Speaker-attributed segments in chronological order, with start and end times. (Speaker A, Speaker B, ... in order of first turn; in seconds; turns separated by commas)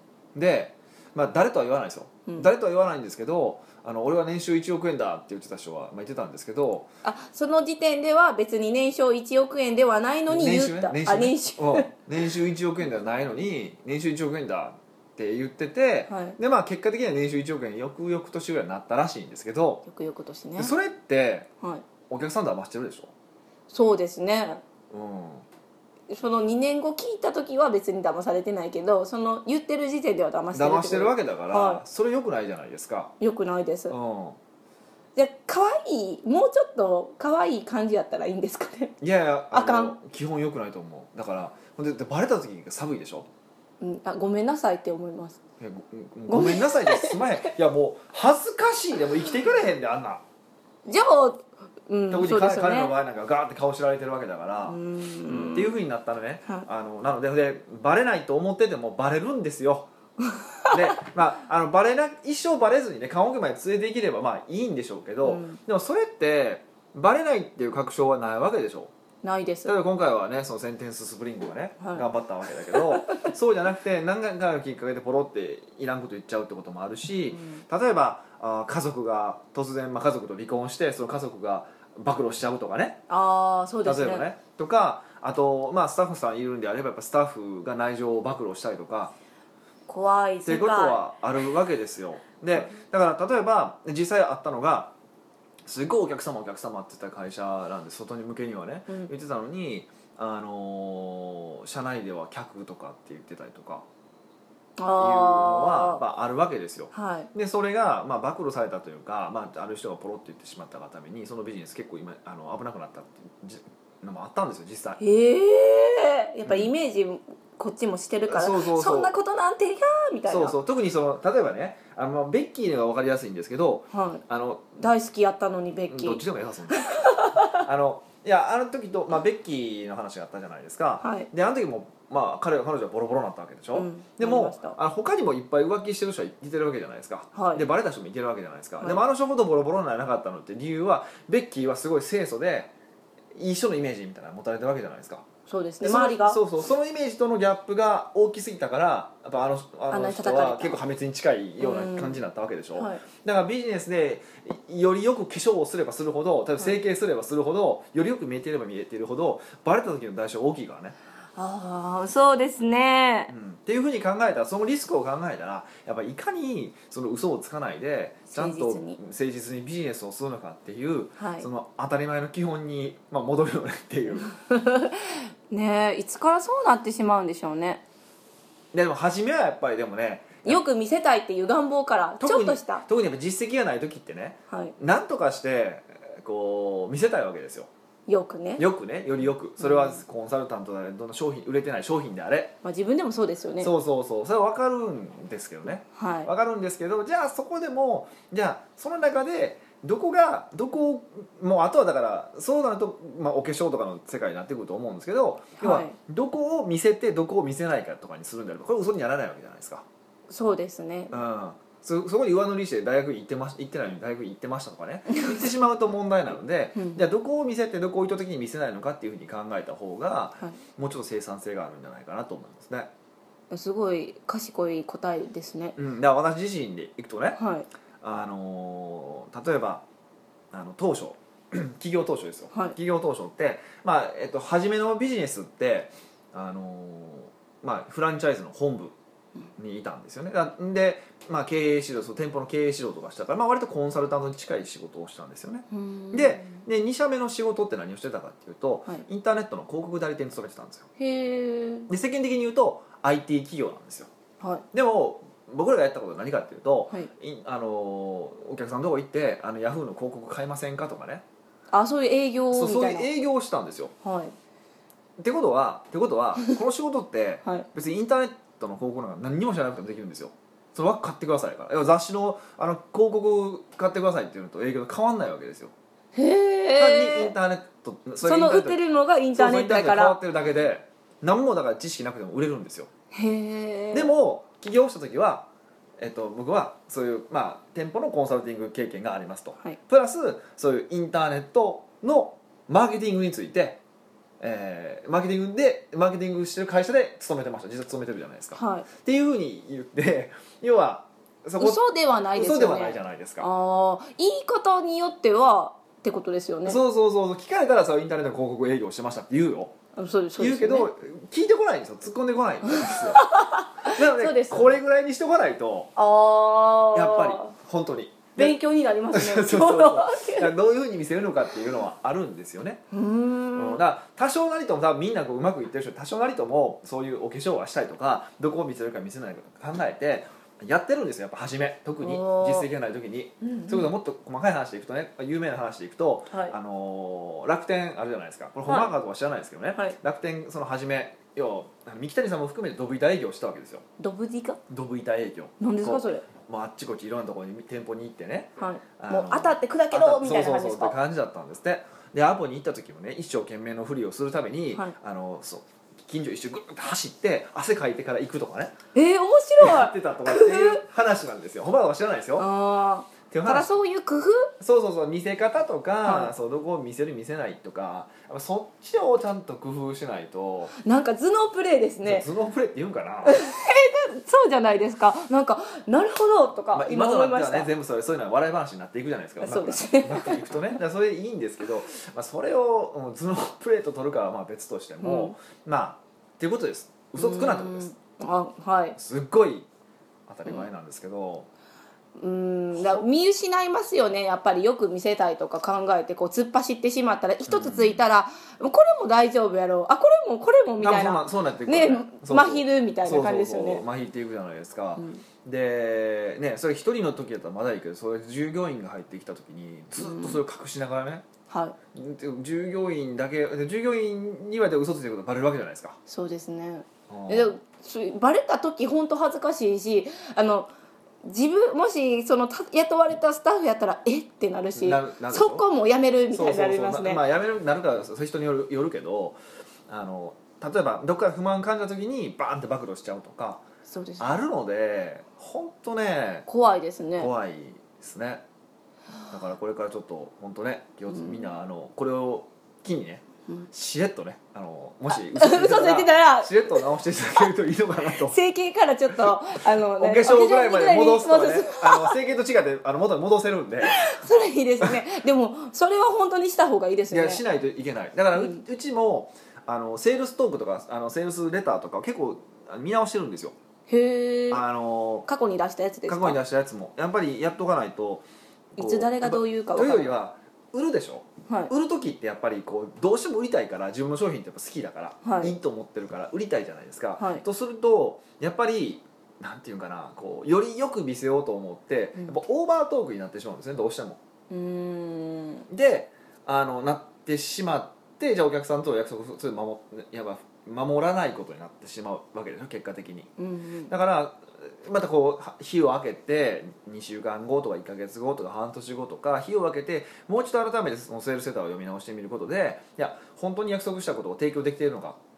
Speaker A: 0.3-6.9, Speaker B: 7.0-11.9, Speaker A: 10.3-19.8, Speaker B: 16.1-16.4, Speaker B: 19.9-20.7, Speaker A: 20.6-21.5, Speaker A: 22.1-23.1, Speaker B: 23.7-24.6, Speaker A: 24.9-25.4, Speaker B: 26.1-31.8, Speaker A: 30.5-33.1, Speaker B: 33.2-34.0, Speaker A: 33.9-34.4, Speaker B: 35.1-39.0, Speaker A: 39.0-43.3, Speaker B: 39.5-39.9, Speaker B: 43.8-45.4, Speaker A: 45.6-50.2, Speaker B: 46.3-47.2, Speaker B: 50.8-52.9, Speaker A: 52.1-59.9, Speaker B: 54.7-55.8, Speaker B: 60.2-60.9, Speaker A: 60.7-68.9, Speaker B: 65.2-65.6, Speaker B: 69.2-69.8, Speaker A: 69.6-83.0, Speaker B: 71.8-72.0, Speaker B: 72.7-73.2, Speaker B: 77.3-77.6, Speaker B: 83.1-84.2, Speaker A: 83.8-89.1, Speaker B: 89.9-91.0, Speaker A: 90.4-94.9, Speaker A: 95.7-103.8, Speaker B: 104.8-106.0, Speaker A: 104.9-115.0, Speaker B: 106.9-107.3, Speaker B: 115.0-120.6, Speaker A: 116.5-116.7, Speaker A: 118.3-119.1, Speaker A: 120.3-124.8, Speaker B: 123.9-124.2, Speaker B: 124.8-126.2, Speaker A: 125.9-142.7, Speaker B: 126.8-127.7, Speaker B: 131.0-131.3, Speaker B: 133.7-134.8, Speaker B: 137.3-137.6, Speaker A: 143.3-145.2, Speaker B: 145.5-146.4, Speaker A: 145.8-160.9, Speaker B: 149.9-150.8, Speaker B: 151.6-152.2, Speaker B: 152.8-153.0, Speaker B: 161.3-163.3, Speaker A: 163.3-174.3, Speaker B: 168.3-169.0, Speaker B: 171.2-171.5, Speaker B: 174.4-177.8, Speaker A: 178.7-180.6, Speaker B: 180.4-182.8, Speaker A: 182.2-187.7, Speaker B: 184.5-184.7, Speaker B: 188.1-188.7, Speaker A: 188.6-192.6, Speaker B: 189.6-190.0, Speaker B: 192.6-193.7, Speaker A: 193.6-209.8, Speaker B: 195.9-196.3, Speaker B: 205.6-205.9, Speaker B: 210.3-211.1, Speaker A: 211.1-222.9, Speaker B: 216.8-217.0, Speaker B: 223.5-225.8, Speaker A: 225.8-227.4, Speaker B: 227.4-227.7, Speaker A: 228.0-229.8, Speaker A: 230.5-238.9, Speaker A: 239.6-250.9, Speaker B: 245.7-246.6, Speaker B: 251.0-251.9, Speaker A: 251.9-254.1, Speaker B: 254.4-254.7, Speaker A: 254.7-261.2, Speaker B: 261.7-263.1, Speaker A: 262.5-263.9, Speaker B: 264.0-264.3, Speaker A: 265.2-275.7, Speaker B: 276.1-277.3, Speaker A: 276.8-278.8, Speaker B: 278.2-280.2, Speaker A: 279.3-282.9, Speaker B: 283.1-284.1, Speaker A: 283.9-285.4, Speaker A: 286.0-293.8, Speaker A: 294.4-301.8, Speaker B: 298.6-298.9, Speaker B: 301.6-306.8, Speaker A: 302.3-303.5, Speaker A: 306.6-309.7, Speaker B: 309.9-310.9, Speaker A: 310.4-313.3, Speaker B: 312.6-314.8, Speaker A: 313.8-315.9, Speaker B: 315.9-317.5, Speaker A: 316.9-318.6, Speaker B: 318.4-320.5, Speaker A: 319.1-322.8, Speaker B: 322.9-323.8, Speaker A: 323.5-343.8, Speaker B: 332.0-332.7, Speaker B: 333.4-333.9, Speaker B: 338.7-338.9, Speaker B: 344.0-344.6, Speaker A: 344.7-358.7, Speaker B: 345.6-346.2, Speaker B: 348.6-351.0, Speaker B: 358.9-360.8, Speaker A: 359.6-362.4, Speaker B: 362.4-364.5, Speaker A: 363.3-363.7, Speaker A: 364.6-370.7, Speaker B: 366.0-366.3, Speaker B: 370.8-372.2, Speaker A: 372.0-373.4, Speaker B: 373.2-377.7, Speaker A: 376.7-387.9, Speaker B: 379.4-380.5, Speaker B: 385.0-385.3, Speaker B: 387.2-389.0, Speaker A: 388.9-389.7, Speaker A: 390.3-391.5, Speaker B: 392.1-403.8, Speaker A: 392.8-393.0, Speaker A: 397.5-398.0, Speaker A: 400.8-411.2, Speaker B: 405.0-405.2, Speaker B: 410.0-410.4, Speaker B: 411.5-411.8, Speaker A: 411.9-416.0, Speaker B: 416.1-420.7, Speaker A: 417.1-417.6, Speaker B: 421.2-427.2, Speaker A: 424.8-425.6, Speaker A: 426.3-429.4, Speaker A: 429.9-433.6, Speaker B: 433.9-434.3, Speaker A: 434.2-436.4, Speaker B: 436.5-437.3, Speaker A: 437.2-438.4, Speaker A: 439.3-448.4, Speaker B: 441.1-441.5, Speaker B: 445.1-446.9, Speaker B: 448.2-452.2, Speaker A: 449.9-454.1, Speaker B: 453.8-457.4, Speaker A: 457.1-463.5, Speaker B: 458.3-458.6, Speaker B: 463.9-464.6, Speaker A: 464.5-465.3, Speaker B: 465.3-466.4, Speaker A: 466.1-484.2, Speaker B: 468.8-470.1, Speaker B: 475.2-475.5, Speaker B: 477.2-477.4, Speaker B: 484.5-485.6, Speaker A: 485.7-493.3, Speaker B: 493.4-493.9, Speaker A: 493.9-505.2